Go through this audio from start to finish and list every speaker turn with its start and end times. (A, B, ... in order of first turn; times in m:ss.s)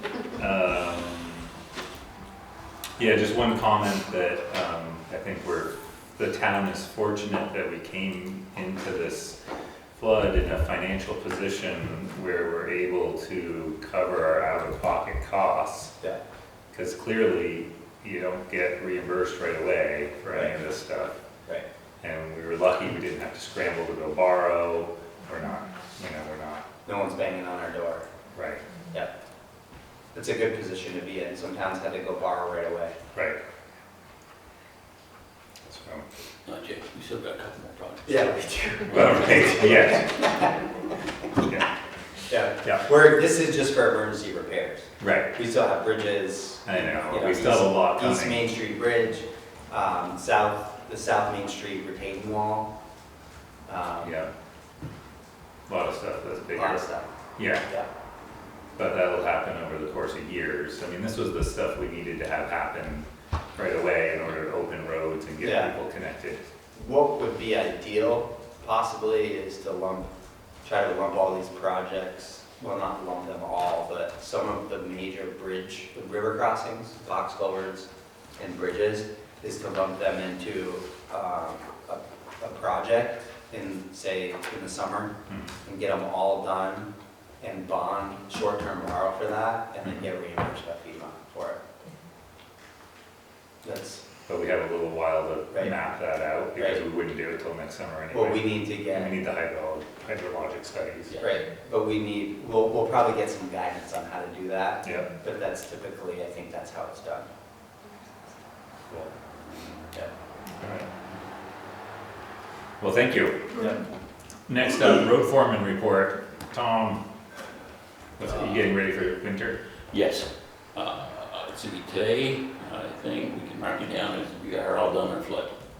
0:00.4-0:01.5 A
0:03.0-0:09.4 A
0:09.9-0:15.9 A
0:16.7-0:21.2 A
0:22.0-0:26.6 A
0:26.8-0:28.0 B
0:28.3-0:28.6 A
0:30.1-0:33.0 B
0:33.1-0:33.4 A
0:35.6-0:36.0 A
0:36.4-0:38.3 C
0:38.0-0:40.8 B
0:38.9-0:40.1 A
0:42.3-0:52.7 B
0:45.0-0:45.3 A
0:46.6-0:48.4 A
0:53.7-0:54.2 B
0:54.0-0:54.3 A
0:55.7-0:56.8 A
0:56.5-0:57.0 B
0:57.4-0:57.6 A
0:58.8-1:06.4 A
1:05.4-1:05.7 B
1:06.7-1:10.1 B
1:10.6-1:25.1 B
1:25.3-1:25.6 A
1:25.6-1:31.6 B
1:33.6-1:34.0 B
1:34.2-1:41.1 A
1:38.1-1:39.1 B
1:41.1-1:41.3 C
1:41.2-1:47.3 B
1:44.8-1:45.1 A
1:48.9-1:49.1 A
1:50.6-1:50.9 A
1:52.8-1:53.7 A
1:53.6-1:53.8 B
1:54.5-1:57.0 A
1:58.2-1:59.6 A
1:59.9-2:05.5 C